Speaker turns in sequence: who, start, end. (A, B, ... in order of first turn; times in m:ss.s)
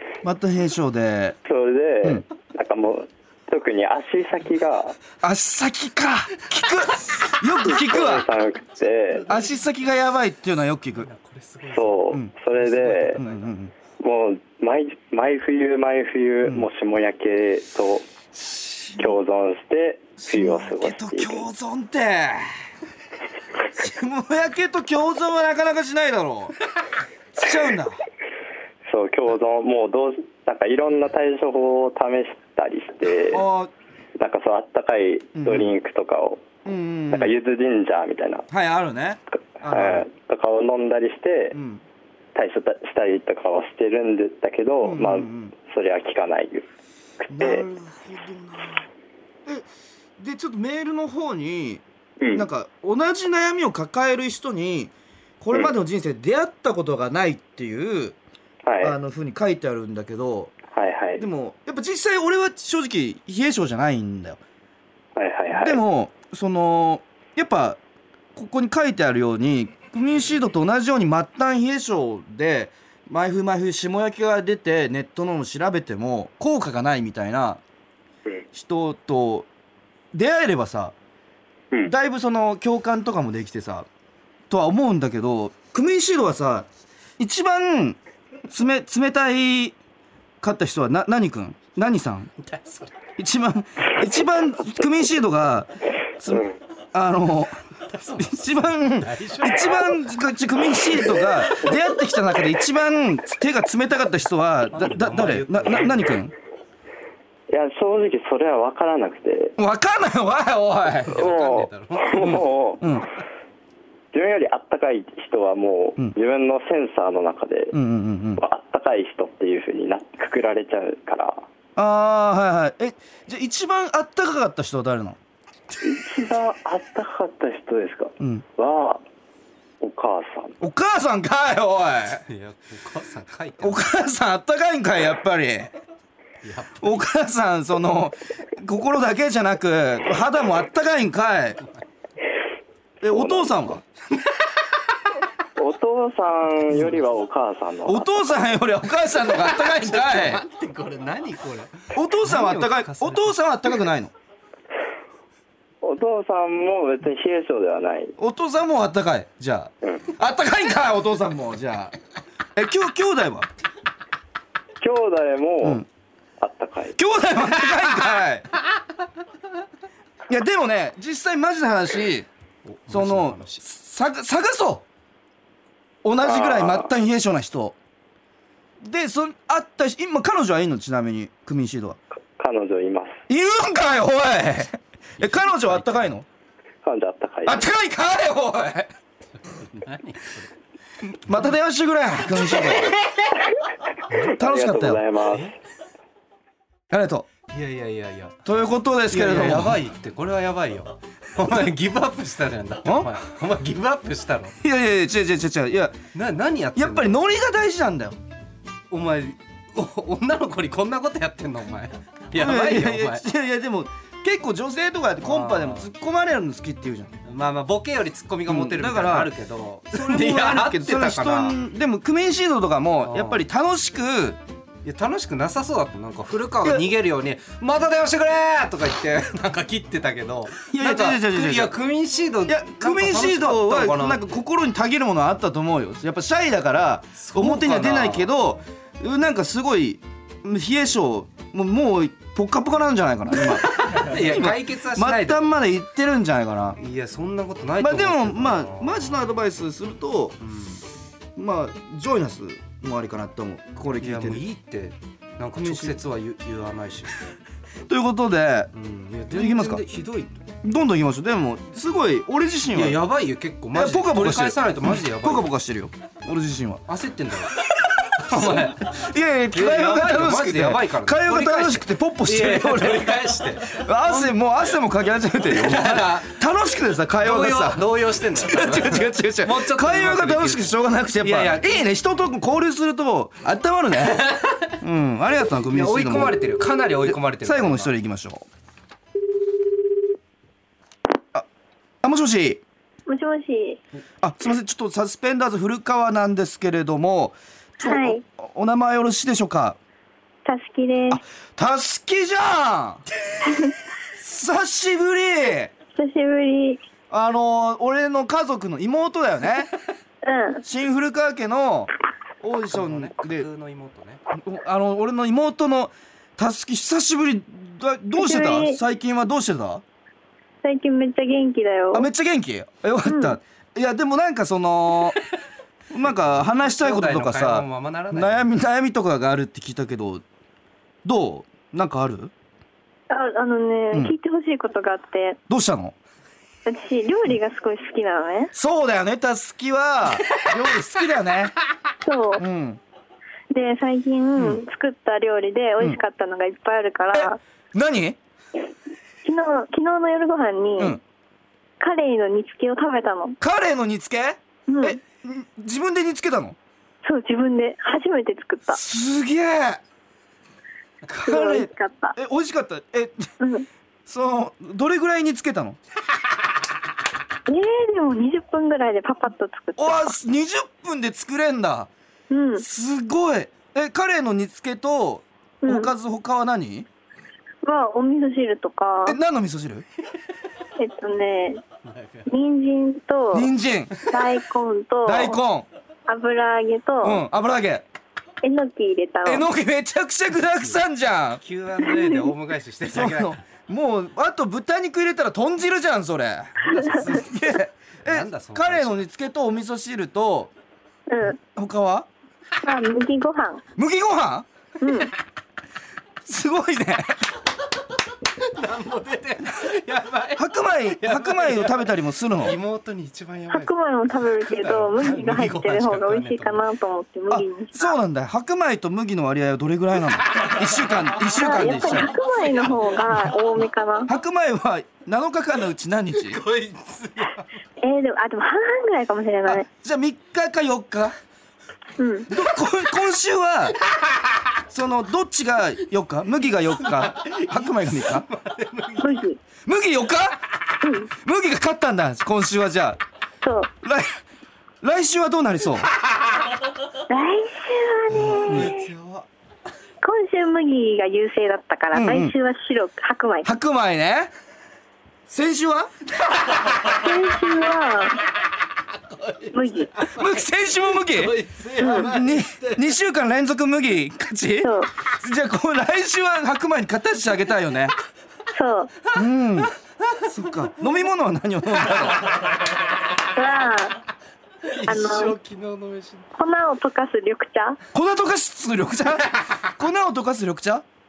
0:00.2-0:01.4 A
0:01.4-0:05.0 B
0:05.2-0:08.2 A
0:07.6-0:09.2 B
0:09.3-0:11.1 A
0:11.0-0:13.5 C
0:11.7-0:13.2 B
0:13.1-0:13.7 A
0:14.0-0:18.1 B
0:18.3-0:19.2 A
0:19.0-0:21.4 B
0:20.2-0:22.5 A
0:23.7-0:26.6 A
0:27.3-0:28.0 A
0:28.8-0:33.4 B
0:33.3-0:33.7 A
0:34.2-0:36.5 B
0:35.3-0:35.7 A
0:36.6-0:37.4 A
0:37.1-0:38.5 B
0:38.5-0:40.1 A
0:39.6-0:41.6 B
0:41.5-0:41.8 A
0:42.3-0:46.7 B
0:44.8-0:45.5 A
0:47.2-0:47.6 B
0:47.3-0:48.9 A
0:50.2-0:58.2 A
0:52.2-0:52.4 B
0:58.6-0:58.9 B
0:58.8-1:00.5 A
1:00.7-1:01.2 B
1:01.2-1:04.4 A
1:05.2-1:05.8 B
1:05.5-1:07.8 A
1:08.3-1:17.6 A
1:18.5-1:19.5 A
1:20.1-1:20.9 A
1:21.8-1:23.9 A
1:24.5-1:26.7 A
1:27.2-1:28.0 A
1:28.5-1:29.8 A
1:30.4-1:32.3 A
1:32.4-1:32.9 C
1:33.2-1:37.6 A
1:37.8-1:39.9 C
1:38.2-1:46.3 A
1:44.7-1:46.1 C
1:47.5-1:49.5 B
1:49.6-1:51.2 A
1:51.1-1:52.5 C
1:51.1-1:52.8 B
1:52.2-1:53.1 A
1:54.1-1:57.7 B
1:57.7-1:58.4 A
1:58.4-2:01.4 B
2:01.8-2:05.2 A
2:05.8-2:09.0 B
2:08.2-2:08.4 A
2:09.8-2:10.5 B
2:10.6-2:12.2 A
2:12.3-2:13.8 C
2:13.6-2:15.7 A
2:16.4-2:16.9 C
2:16.8-2:21.6 A
2:23.0-2:23.8 A
2:23.1-2:23.6 B
2:25.6-2:28.2 B
2:27.8-2:30.4 A
2:29.3-2:33.3 C
2:31.9-2:34.1 A
2:35.8-2:38.1 B
2:38.2-2:41.9 A
2:42.6-2:43.5 A
2:44.8-2:45.8 B
2:46.4-2:47.0 B
2:47.0-2:48.5 A
2:50.3-2:52.3 A
2:52.6-2:53.6 C
2:52.9-2:54.8 A
2:56.0-2:57.7 A
2:56.2-2:56.9 B
2:58.8-3:02.0 A
3:02.4-3:03.2 B
3:03.3-3:06.2 A
3:05.5-3:06.1 C
3:06.8-3:07.6 B
3:07.4-3:08.9 A
3:09.4-3:10.5 C
3:11.0-3:12.9 A
3:12.6-3:13.2 C
3:14.2-3:15.0 A
3:14.2-3:15.5 B
3:16.9-3:17.3 A
3:17.5-3:18.4 C
3:18.4-3:19.8 A
3:19.1-3:24.6 C
3:22.8-3:23.1 A
3:24.6-3:26.0 A
3:26.1-3:27.2 C
3:26.8-3:28.2 A
3:28.9-3:33.2 C
3:32.3-3:37.1 A
3:35.2-3:35.9 C
3:37.2-3:41.6 C
3:38.5-3:39.3 A
3:39.9-3:44.4 A
3:43.0-3:43.4 C
3:44.8-3:54.3 C
3:46.6-3:46.9 A
3:50.7-3:51.8 A
3:52.5-4:06.8 A
3:57.2-3:58.3 C
4:03.7-4:05.5 C
4:06.8-4:09.2 C
4:07.8-4:10.4 A
4:10.4-4:10.8 C
4:11.4-4:14.4 A
4:14.0-4:17.1 C
4:15.6-4:16.0 A
4:17.9-4:18.7 A
4:18.7-4:20.3 C
4:19.3-4:19.8 A
4:20.6-4:23.0 A
4:22.7-4:25.5 C
4:23.7-4:26.8 A
4:26.9-4:27.6 C
4:28.1-4:29.0 C
4:28.2-4:46.4 A
4:29.5-4:34.3 C
4:35.4-4:36.4 C
4:37.2-4:41.8 C
4:44.0-4:44.7 C
4:45.7-4:47.9 C
4:47.0-4:48.4 A
4:52.0-4:52.6 A
4:53.1-4:53.8 D
4:54.2-4:59.8 A
4:57.8-4:58.2 D
5:00.4-5:01.2 D
5:01.1-5:03.0 A
5:03.4-5:03.7 D
5:04.1-5:05.7 A
5:05.9-5:06.8 D
5:07.1-5:09.7 A
5:10.2-5:10.6 D
5:10.6-5:11.9 A
5:12.4-5:13.5 A
5:12.7-5:14.2 C
5:14.3-5:19.8 A
5:18.2-5:18.8 D
5:20.6-5:22.1 D
5:21.9-5:25.2 A
5:23.0-5:23.4 D
5:25.9-5:30.2 A
5:26.6-5:28.5 C
5:31.0-5:32.3 A
5:33.1-5:35.4 D
5:35.5-5:35.9 A
5:36.6-5:38.5 D
5:38.5-5:41.5 A
5:42.0-5:42.4 D
5:42.4-5:42.8 A
5:43.5-5:47.4 D
5:44.4-5:44.6 A
5:47.1-5:48.2 A
5:49.2-5:51.0 D
5:51.8-5:53.4 D
5:53.4-5:56.6 A
5:54.7-5:55.0 D
5:57.0-5:58.8 D
5:58.7-5:59.8 A
6:01.1-6:03.3 A
6:01.2-6:02.2 D
6:03.4-6:03.7 D
6:04.0-6:05.8 A
6:07.5-6:10.1 D
6:09.8-6:11.9 A
6:12.3-6:12.6 D
6:12.6-6:16.9 A
6:15.6-6:15.9 D
6:17.6-6:19.2 D
6:19.0-6:19.8 A
6:20.8-6:21.6 D
6:21.8-6:22.3 C
6:22.3-6:23.5 D
6:23.3-6:24.0 A
6:24.1-6:25.4 D
6:25.0-6:25.7 A
6:26.1-6:27.2 D
6:27.0-6:27.8 A
6:28.4-6:29.4 D
6:29.2-6:31.4 A
6:31.4-6:33.4 C
6:32.9-6:40.5 A
6:36.7-6:37.0 D
6:38.0-6:39.0 C
6:41.1-6:41.4 D
6:41.3-6:42.1 A
6:42.6-6:43.6 D
6:43.8-6:44.4 A
6:44.8-6:45.1 D
6:46.2-6:47.3 A
6:48.2-6:51.9 C
6:50.4-6:52.6 A
6:52.4-6:53.7 C
6:53.5-6:57.9 D
6:54.2-6:56.7 C
6:57.3-7:02.2 A
7:00.2-7:03.3 C
7:01.2-7:04.1 D
7:04.1-7:06.4 A
7:06.2-7:07.5 C
7:07.8-7:09.6 D
7:09.4-7:11.1 A
7:12.0-7:12.3 D
7:12.3-7:13.8 A
7:14.7-7:18.3 A
7:16.9-7:19.2 C
7:19.0-7:19.4 D
7:19.6-7:20.6 A
7:20.8-7:21.1 D
7:21.1-7:23.0 A
7:23.4-7:23.7 D
7:23.8-7:24.2 A
7:24.8-7:25.9 A
7:27.1-7:28.8 D
7:28.2-7:29.2 A
7:30.0-7:33.5 D
7:31.9-7:32.3 A
7:33.4-7:34.3 A
7:35.3-7:35.9 A
7:36.4-7:36.9 C
7:36.8-7:38.2 D
7:38.9-7:40.4 C
7:39.5-7:39.9 D
7:40.1-7:47.9 A
7:41.0-7:42.8 C
7:41.8-7:42.1 D
7:44.6-7:44.9 D
7:48.5-7:48.9 D
7:49.1-7:49.7 A
7:50.2-7:52.3 A
7:52.2-7:52.8 C
7:53.3-7:54.0 D
7:54.6-7:56.3 C
7:54.8-7:55.4 D
7:56.4-7:57.8 D
7:57.9-8:00.8 A